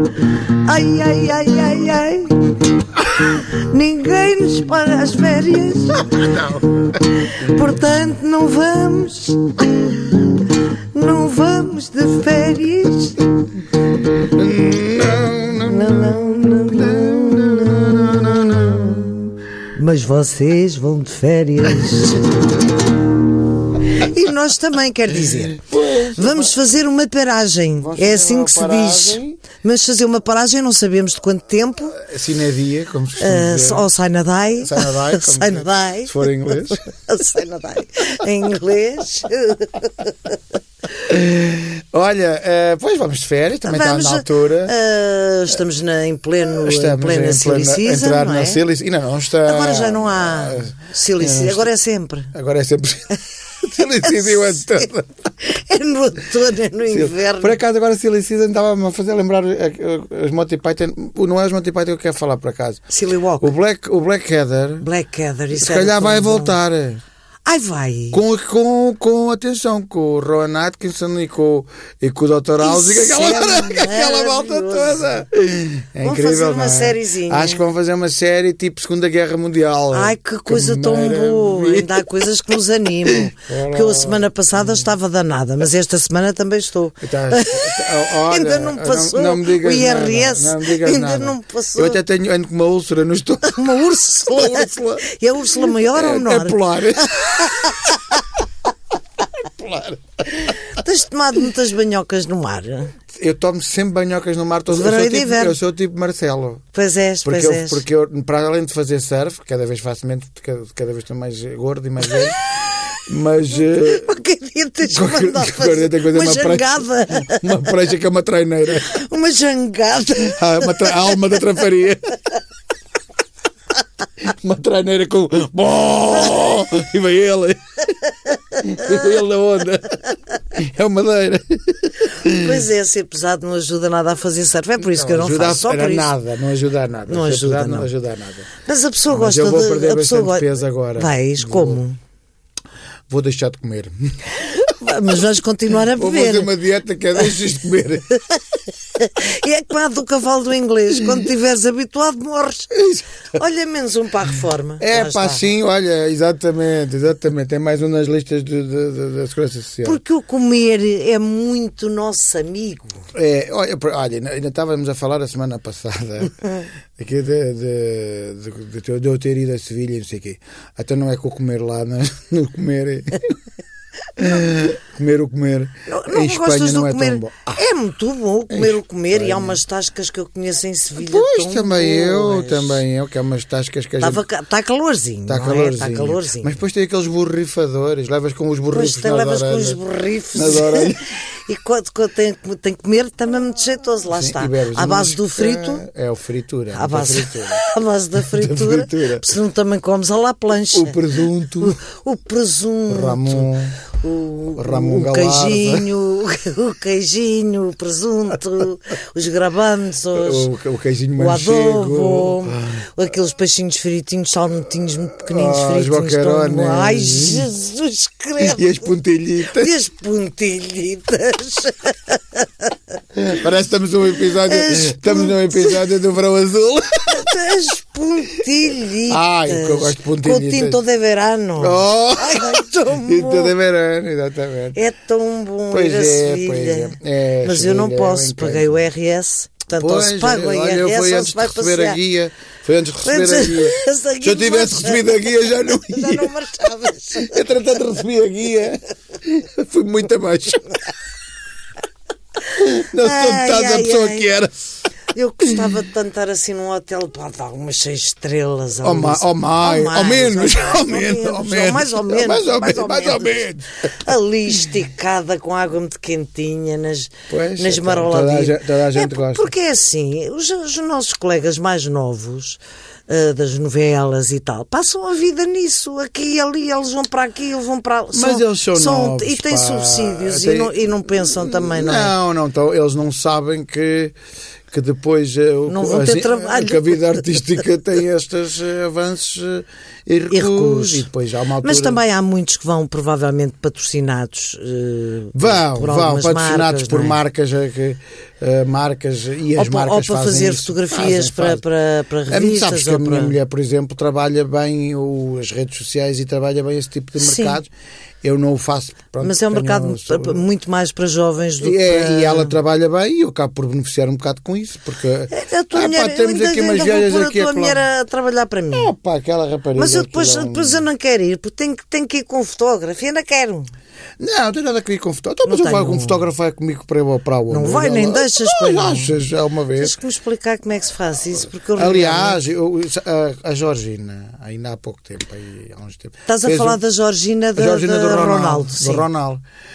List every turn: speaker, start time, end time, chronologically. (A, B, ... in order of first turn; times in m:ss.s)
0:00.3-0:13.3 A
0:06.4-0:06.6 B
0:14.1-0:19.0 B
0:15.6-0:22.4 A
0:23.8-0:32.0 A
0:25.5-0:26.6 B
0:27.8-0:29.4 B
0:31.9-0:33.8 B
0:33.2-0:40.4 A
0:34.6-0:36.8 B
0:41.0-0:44.7 B
0:43.6-0:48.6 A
0:46.6-0:51.7 B
0:49.4-0:52.3 A
0:52.3-0:55.1 B
0:53.8-0:57.6 A
0:56.9-1:02.8 B
1:02.9-1:03.5 A
1:03.4-1:04.8 B
1:04.8-1:06.6 A
1:05.6-1:07.0 B
1:07.5-1:08.2 A
1:08.1-1:22.2 B
1:12.6-1:15.2 A
1:16.0-1:17.6 A
1:19.9-1:32.0 A
1:23.0-1:25.0 B
1:27.0-1:38.0 B
1:33.4-1:38.2 A
1:39.4-1:40.6 B
1:40.6-1:42.9 A
1:43.2-1:46.6 B
1:44.7-1:45.6 A
1:46.7-1:47.8 A
1:47.2-1:52.4 B
1:53.1-1:54.1 B
1:53.6-1:57.9 A
1:54.9-1:58.9 B
1:58.7-2:01.6 A
2:00.2-2:02.2 B
2:04.2-2:07.6 B
2:08.5-2:12.7 B
2:12.3-2:16.1 A
2:14.8-2:18.5 B
2:17.1-2:17.9 A
2:18.6-2:22.0 A
2:19.1-2:21.8 B
2:23.1-2:24.0 B
2:24.4-2:26.5 A
2:25.9-2:28.1 B
2:28.9-2:32.7 A
2:32.7-2:33.2 B
2:33.3-2:35.5 A
2:34.8-2:40.0 B
2:39.8-2:43.1 A
2:43.1-2:53.3 B
2:54.2-2:57.6 B
2:55.9-3:02.8 A
2:58.5-2:59.6 B
3:01.0-3:04.2 B
3:04.0-3:06.6 A
3:05.3-3:09.8 B
3:08.7-3:15.8 A
3:10.3-3:11.0 B
3:14.1-3:17.6 B
3:16.7-3:30.5 A
3:18.2-3:19.4 B
3:20.7-3:21.8 B
3:22.9-3:23.8 B
3:24.6-3:25.9 B
3:30.1-3:32.8 B
3:31.2-3:38.9 A
3:35.1-3:37.5 B
3:38.4-3:39.7 B
3:39.5-3:42.7 A
3:43.1-3:47.5 B
3:44.4-3:45.8 A
3:47.1-3:53.6 A
3:49.1-3:50.8 B
3:51.6-3:54.8 B
3:54.8-4:02.0 A
3:55.7-3:58.9 B
3:59.8-4:06.4 B
4:03.0-4:07.6 A
4:07.1-4:10.8 B
4:12.5-4:14.5 B
4:13.0-4:14.4 A
4:15.1-4:42.1 A
4:15.4-4:15.8 B
4:18.8-4:23.8 B
4:27.3-4:29.5 B
4:38.1-4:44.1 B
4:44.7-4:52.0 B
4:45.7-4:47.4 A
4:50.3-4:51.1 A
4:51.6-4:57.2 A
4:55.3-5:01.6 B
4:59.6-5:03.4 A
5:02.3-5:07.7 B
5:07.2-5:07.6 A
5:08.2-5:10.4 B
5:09.2-5:12.6 A
5:11.6-5:17.8 B
5:15.3-5:18.9 A
5:18.7-5:20.8 B
5:19.8-5:23.7 A
5:24.2-5:29.9 B
5:25.4-5:26.3 A
5:27.5-5:29.2 A
5:29.8-5:32.4 A
5:31.7-5:36.8 B
5:36.3-5:39.1 A
5:37.6-5:39.4 B